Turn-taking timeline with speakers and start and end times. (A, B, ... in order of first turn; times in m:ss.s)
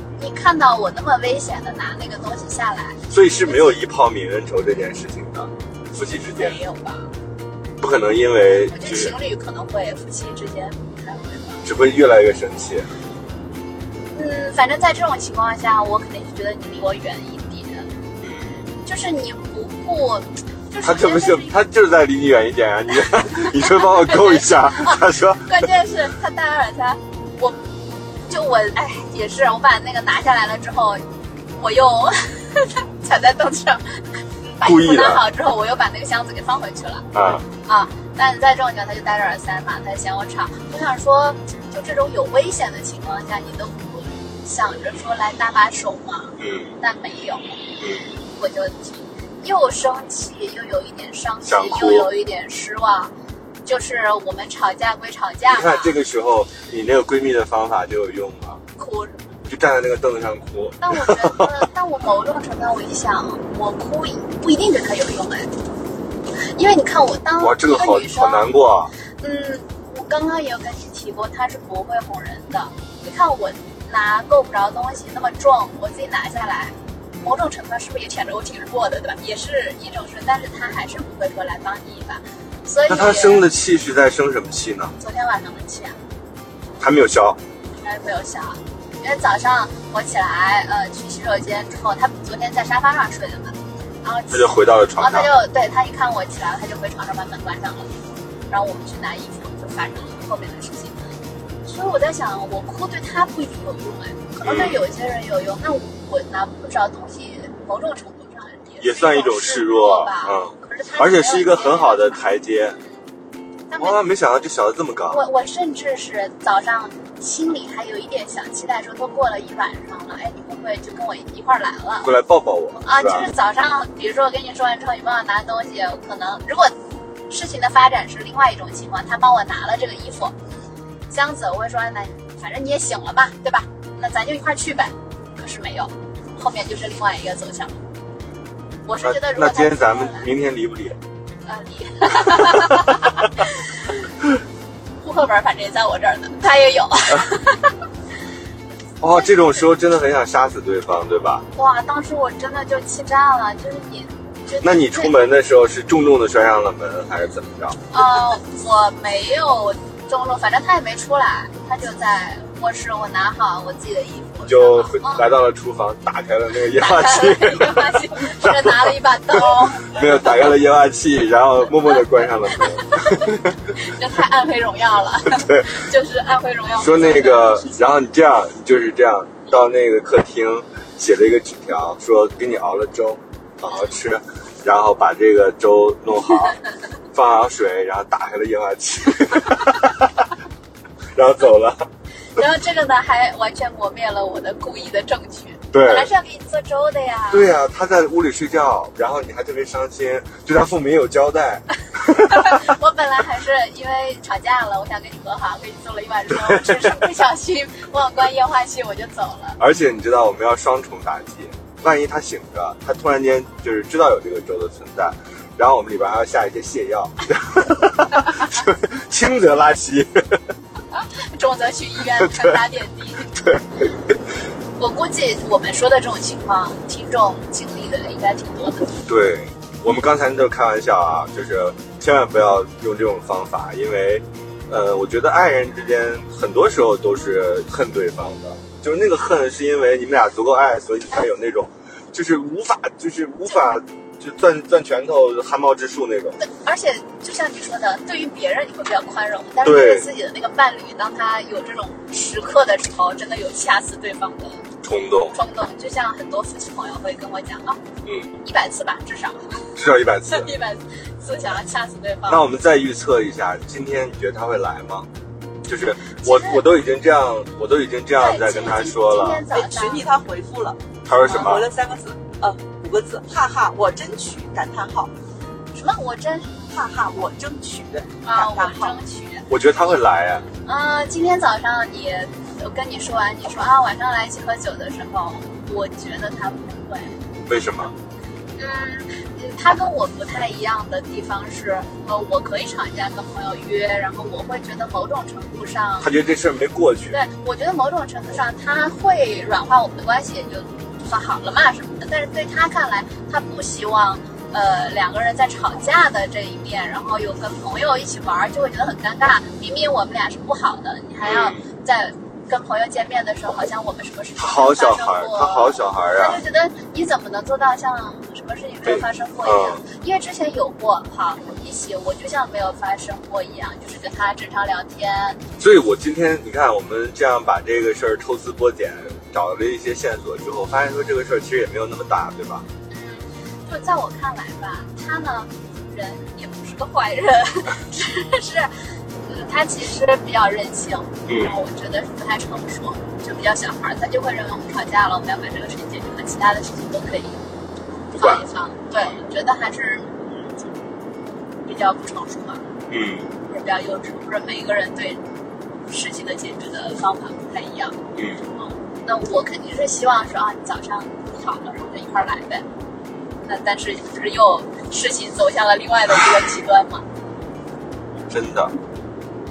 0:00.2-0:03.8 A
0:03.1-0:06.6 B
0:06.1-0:07.1 A
0:07.8-0:09.2 B
0:08.7-0:11.6 A
0:11.6-0:12.9 B
0:14.1-0:17.9 A
0:18.2-0:18.6 B
0:18.8-0:21.6 A
0:20.8-0:25.7 B
0:23.2-0:27.6 A
0:28.3-0:31.0 A
0:31.6-0:37.1 A
0:34.6-0:35.2 B
0:37.1-0:37.5 B
0:37.6-0:47.6 A
0:46.4-0:46.7 B
0:47.8-0:48.1 B
0:48.2-0:53.1 A
0:51.5-0:52.1 B
0:53.6-0:56.0 A
0:55.5-0:58.6 B
0:58.8-0:59.4 A
0:59.5-1:01.7 B
1:00.8-1:05.5 A
1:06.5-1:08.5 A
1:07.4-1:08.9 B
1:09.2-1:23.5 A
1:22.9-1:24.9 B
1:25.0-1:26.0 A
1:26.8-1:27.4 B
1:27.8-1:37.9 A
1:34.3-1:35.3 B
1:38.5-1:41.1 A
1:41.6-1:52.2 A
1:44.4-1:44.8 B
1:48.8-1:52.8 B
1:53.7-1:54.0 A
1:53.8-1:55.2 B
1:55.1-2:02.1 A
2:02.0-2:03.3 B
2:02.8-2:06.7 A
2:07.3-2:10.4 A
2:11.1-2:17.8 A
2:18.8-2:20.3 A
2:19.0-2:21.0 B
2:21.5-2:24.0 A
2:25.0-2:27.8 A
2:29.0-2:31.5 B
2:29.1-2:29.6 A
2:31.6-2:35.2 A
2:34.6-2:37.8 B
2:37.9-2:45.4 A
2:44.4-2:53.5 B
2:46.7-2:50.2 A
2:52.6-2:57.8 A
2:55.3-2:55.8 B
2:56.8-3:06.6 B
3:07.1-3:10.3 B
3:11.1-3:11.8 B
3:12.4-3:17.6 A
3:15.7-3:16.1 B
3:17.3-3:22.7 B
3:22.3-3:29.6 A
3:26.3-3:27.0 B
3:29.6-3:40.4 B
3:41.2-3:43.3 A
3:42.2-3:42.6 B
3:43.3-3:44.1 B
3:44.8-3:49.0 A
3:49.1-4:06.4 B
4:06.4-4:14.6 A
4:09.6-4:10.1 B
4:14.8-4:15.4 B
4:15.3-4:17.8 A
4:18.4-4:19.7 A
4:19.8-4:20.5 B
4:20.3-4:22.5 A
4:22.3-4:25.1 B
4:25.7-4:29.4 B
4:26.2-4:26.6 A
4:28.2-4:30.0 A
4:29.5-4:35.1 C
4:31.1-4:31.7 B
4:35.8-4:36.7 A
4:36.7-4:39.0 C
4:38.2-4:39.5 A
4:39.5-4:40.5 B
4:40.6-4:47.2 A
4:47.5-4:47.9 B
4:48.6-4:56.1 A
4:56.0-4:57.2 B
4:57.1-5:25.4 A
5:11.2-5:11.6 B
5:14.4-5:16.4 B
5:18.8-5:19.8 B
5:25.6-5:32.7 B
5:32.9-5:38.7 A
5:39.3-5:47.4 A
5:41.3-5:41.6 B
5:48.1-5:48.5 B
5:48.2-5:50.3 A
5:51.7-5:52.6 A
5:52.9-5:53.3 B
5:53.4-5:55.2 A
5:55.9-6:02.6 A
5:58.2-5:58.4 B
6:03.4-6:07.0 A
6:08.3-6:08.7 B